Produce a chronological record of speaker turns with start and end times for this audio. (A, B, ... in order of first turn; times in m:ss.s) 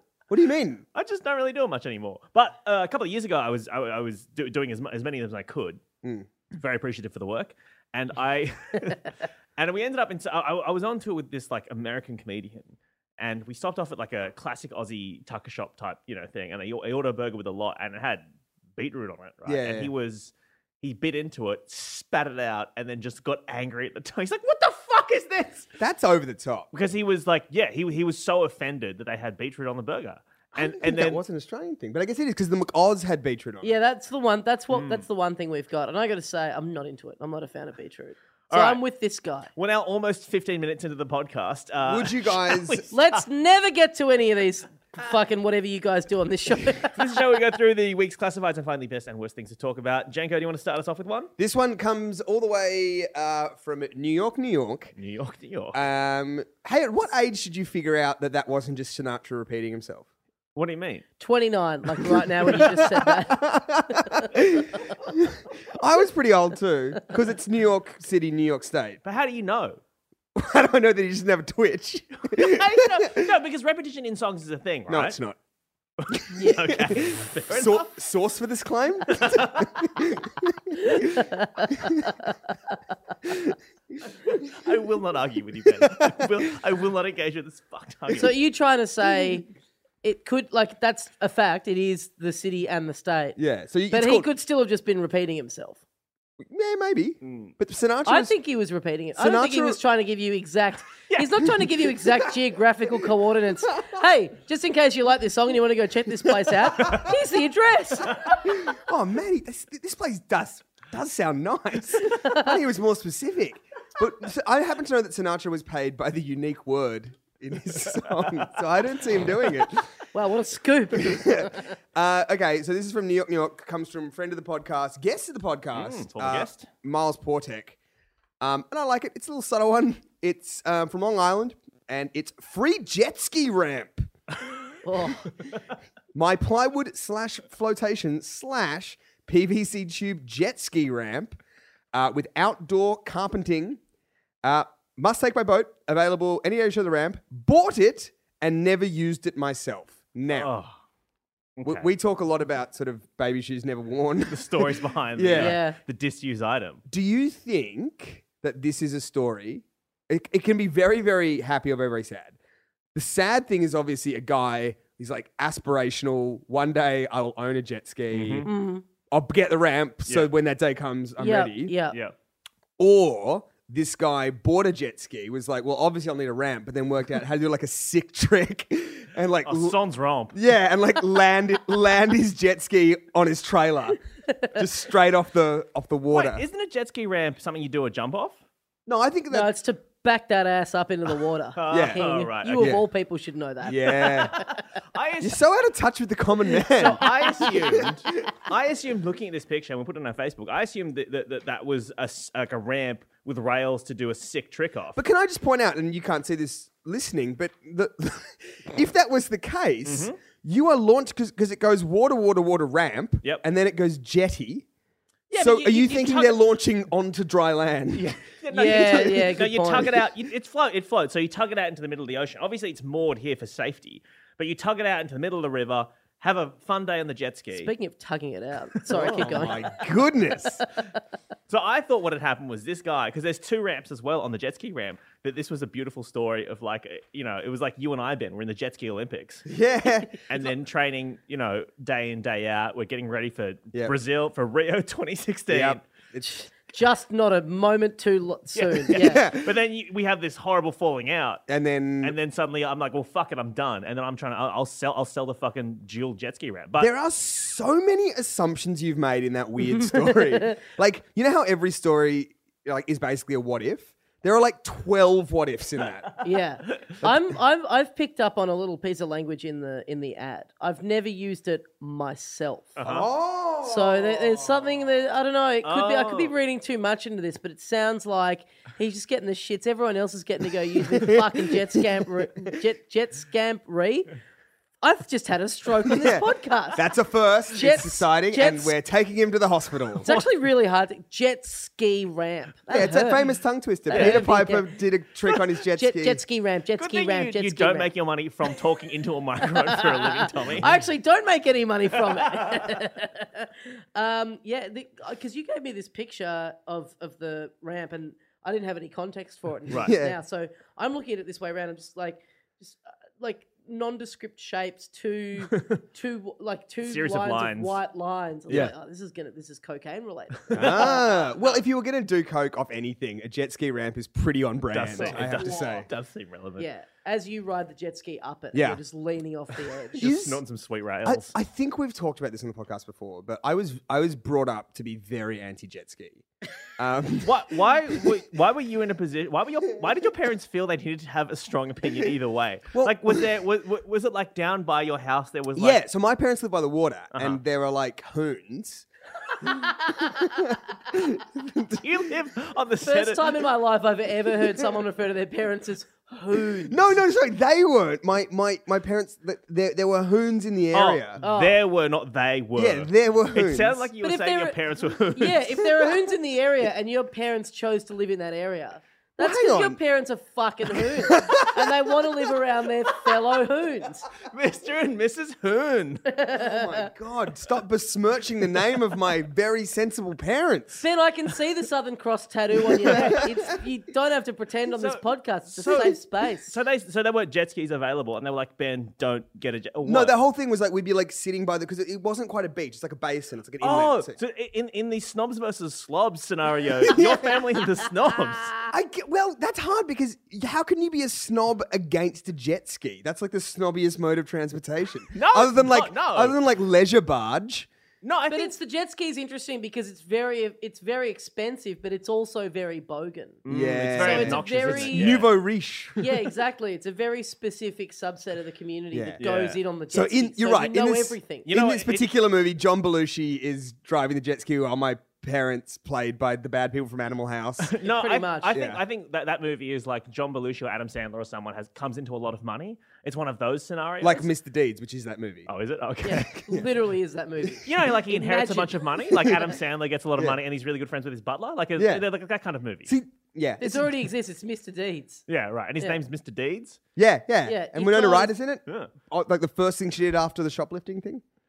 0:00.3-0:00.8 A
0:00.9-0:05.8 B
0:06.5-0:18.2 B
0:18.8-0:25.7 B
0:19.5-0:19.9 A
0:25.8-0:26.7 A
0:26.7-0:31.2 B
0:30.6-0:33.7 A
0:33.6-0:39.5 C
0:34.7-0:35.0 B
0:38.5-0:38.8 B
0:39.6-0:43.2 B
0:41.8-0:42.8 A
0:42.9-0:47.0 C
0:46.8-0:51.3 B
0:51.4-0:54.9 A
0:55.0-0:55.8 B
0:55.7-1:00.1 A
1:00.6-1:01.1 B
1:01.2-1:04.3 C
1:02.1-1:09.0 A
1:09.0-1:09.8 B
1:10.4-1:13.3 A
1:12.3-1:15.2 B
1:14.9-1:15.4 A
1:16.0-1:17.9 B
1:16.1-1:21.2 A
1:16.4-1:16.6 C
1:19.1-1:19.9 B
1:20.8-1:22.4 C
1:21.8-1:22.0 A
1:24.3-1:28.3 B
1:25.8-1:26.4 A
1:28.2-1:29.5 C
1:30.0-1:33.4 C
1:33.4-1:34.3 A
1:33.9-1:35.8 C
1:36.4-1:38.3 A
1:37.2-1:37.5 B
1:38.1-1:48.4 C
1:39.2-1:39.8 A
1:41.1-1:41.5 B
1:43.7-1:44.0 A
1:46.7-1:47.1 A
1:46.8-1:47.1 B
1:48.1-1:48.4 B
1:48.4-1:59.9 A
1:52.0-1:52.5 C
1:58.2-1:58.5 B
2:00.1-2:01.7 C
2:01.0-2:07.8 A
2:05.7-2:06.7 B
2:08.4-2:14.1 A
2:14.8-2:15.3 C
2:16.1-2:21.4 A
2:21.9-2:23.8 A
2:24.4-2:30.5 A
2:30.3-2:30.7 B
2:31.6-2:31.9 B
2:31.6-2:35.6 A
2:34.3-2:36.8 B
2:35.4-2:35.8 C
2:36.9-2:42.4 A
2:43.0-2:48.5 A
2:48.1-2:48.5 B
2:48.4-2:48.8 C
2:49.1-2:51.8 A
2:51.2-2:52.0 C
2:52.8-2:59.8 A
2:59.4-3:00.4 B
3:00.3-3:04.0 A
3:04.3-3:04.6 C
3:04.5-3:06.4 A
3:06.1-3:08.4 B
3:08.9-3:09.5 A
3:09.3-3:14.5 C
3:11.6-3:12.8 B
3:11.7-3:12.8 A
3:13.6-3:14.4 A
3:13.9-3:15.4 B
3:15.2-3:18.1 A
3:16.7-3:25.0 B
3:25.0-3:34.6 A
3:29.8-3:30.2 B
3:35.3-3:36.5 B
3:35.3-3:39.3 A
3:37.9-3:47.7 B
3:38.5-3:40.0 C
3:47.5-3:49.7 C
3:48.9-3:49.6 B
3:48.9-3:50.6 A
3:51.5-3:59.5 B
3:59.5-4:00.2 A
4:00.3-4:05.9 B
4:05.5-4:06.4 A
4:06.2-4:09.3 C
4:08.6-4:11.4 B
4:08.9-4:09.5 A
4:11.5-4:12.2 A
4:12.0-4:16.9 B
4:16.8-4:26.1 A
4:19.8-4:20.6 C
4:26.1-4:26.9 B
4:26.2-4:32.8 C
4:32.8-4:33.1 B
4:32.8-4:34.8 A
4:33.6-4:44.1 C
4:35.6-4:36.3 B
4:40.8-4:42.6 A
4:44.8-4:46.9 C
4:45.9-4:50.1 A
4:47.5-4:48.8 C
4:50.0-4:53.2 C
4:52.7-4:56.2 A
4:53.9-4:54.7 C
4:53.9-4:54.2 B
4:55.8-4:57.9 C
4:56.8-5:00.8 B
4:59.5-5:21.3 C
5:02.0-5:02.8 B
5:09.8-5:10.2 A
5:15.4-5:15.8 B
5:16.8-5:17.8 B
5:20.5-5:21.3 B
5:20.5-5:25.9 A
5:24.7-5:26.7 B
5:25.0-5:25.8 C
5:26.6-5:30.1 C
5:28.5-5:28.8 A
5:29.9-5:31.3 B
5:30.0-5:30.4 A
5:31.0-5:36.2 A
5:36.8-5:38.2 A
5:37.2-5:45.8 B
5:42.7-5:43.3 A
5:45.6-5:48.8 A
5:47.1-5:47.4 B
5:49.4-5:51.9 A
5:51.8-5:53.4 B
5:52.8-5:56.9 C
5:56.7-6:01.2 A
6:00.7-6:05.7 B
6:01.2-6:01.6 C
6:02.6-6:03.9 A
6:04.0-6:04.6 C
6:05.1-6:14.1 C
6:09.2-6:09.8 A
6:11.0-6:11.8 A
6:14.2-6:16.0 B
6:16.1-6:16.9 C
6:16.4-6:20.8 A
6:20.8-6:26.6 C
6:22.9-6:23.5 A
6:24.7-6:30.2 B
6:25.7-6:25.9 A
6:29.8-6:34.2 A
6:33.6-6:38.5 B
6:36.8-6:37.4 A
6:38.7-6:47.7 A
6:45.1-6:46.4 B
6:48.0-6:48.5 B
6:48.3-6:53.4 C
6:53.4-6:55.3 B
6:53.5-6:56.2 A
6:54.0-6:55.2 C
6:56.0-7:01.5 C
6:58.9-6:59.2 A
6:59.2-6:59.6 B
6:59.9-7:07.7 A
7:01.5-7:02.1 B
7:07.6-7:14.3 B
7:07.8-7:08.6 C
7:08.5-7:08.8 A
7:14.0-7:15.5 A
7:15.5-7:16.4 B
7:16.0-7:19.4 C
7:17.6-7:22.9 B
7:19.1-7:19.4 A
7:21.8-7:22.0 A
7:22.9-7:24.0 A
7:23.6-7:25.2 C
7:25.3-7:26.8 B
7:27.0-7:31.2 A
7:27.5-7:28.3 C
7:28.7-7:28.9 B